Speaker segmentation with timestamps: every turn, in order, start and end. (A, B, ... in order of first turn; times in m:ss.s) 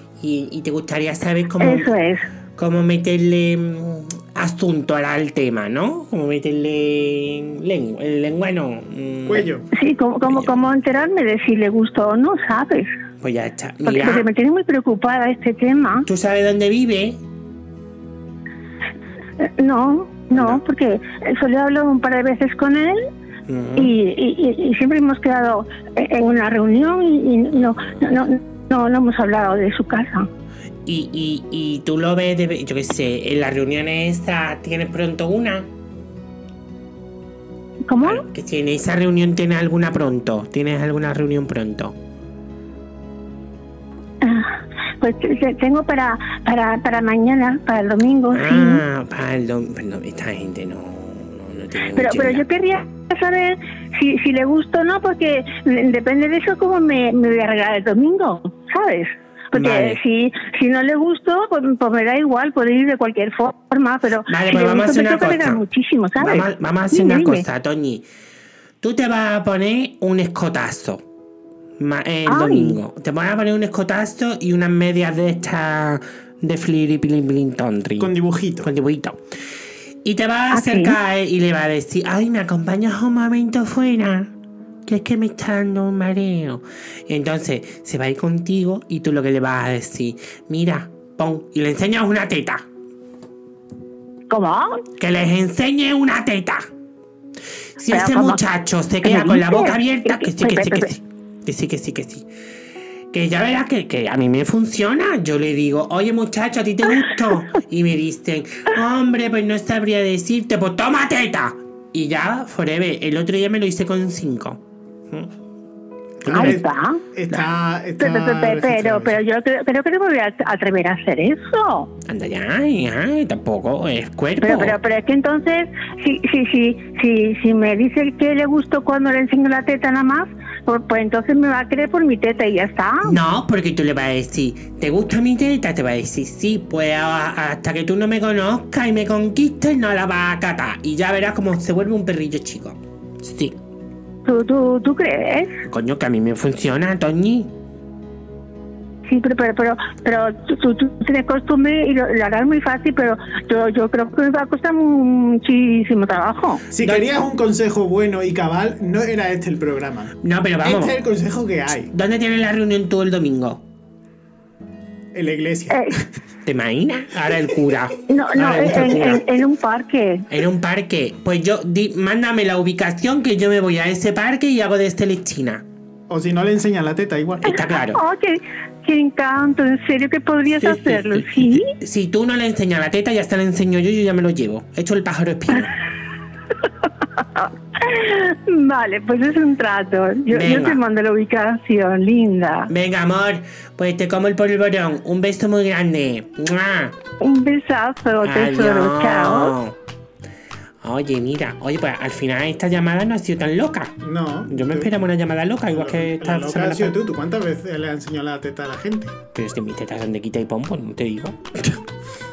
0:00.2-0:01.9 A
0:01.6-0:02.3 B
0:02.6-0:09.5 A
0:09.3-0:09.7 C
0:09.7-0:12.9 B
0:10.3-0:10.5 A
0:13.2-0:14.2 A
0:13.8-0:16.1 B
0:16.1-0:17.2 A
0:19.4-0:23.1 B
0:20.3-0:20.6 A
0:23.5-0:24.0 A
0:23.8-0:30.3 B
0:27.6-0:28.1 A
0:30.9-0:35.7 A
0:37.9-0:38.2 B
0:38.0-0:42.0 A
0:44.2-0:48.8 B
0:48.3-0:52.4 A
0:51.9-1:07.4 B
0:59.5-1:00.0 A
1:04.3-1:05.6 A
1:06.2-1:08.1 A
1:08.8-1:11.0 A
1:11.8-1:19.2 A
1:12.3-1:12.8 B
1:18.0-1:18.7 C
1:20.0-1:24.3 A
1:20.5-1:21.0 B
1:24.9-1:32.6 A
1:34.3-1:34.8 B
1:35.0-1:36.7 A
1:37.8-1:42.3 A
1:37.9-1:38.4 B
1:39.0-1:40.9 B
1:43.1-1:55.3 A
1:56.2-1:56.6 C
1:56.2-1:56.6 A
1:56.3-1:57.0 B
1:57.1-1:59.2 C
1:58.0-2:01.9 B
2:02.1-2:04.8 A
2:04.4-2:13.2 B
2:13.0-2:23.6 A
2:24.3-2:25.6 B
2:25.7-2:27.5 A
2:29.1-2:36.6 B
2:36.7-2:41.9 C
2:36.8-2:37.1 A
2:40.2-2:41.0 A
2:41.9-2:43.6 A
2:45.1-2:46.0 C
2:45.7-2:46.0 B
2:46.4-2:49.2 A
2:48.1-2:50.2 B
2:50.3-2:55.6 A
2:56.1-2:57.6 C
2:57.4-2:58.0 A
2:57.9-3:01.7 B
3:00.6-3:05.7 A
3:07.2-3:12.7 B
3:10.3-3:10.8 A
3:12.7-3:17.0 A
3:17.2-3:19.6 B
3:18.2-3:19.8 A
3:20.8-3:24.0 A
3:24.0-3:25.0 C
3:24.5-3:27.0 A
3:25.7-3:29.2 C
3:29.4-3:31.8 A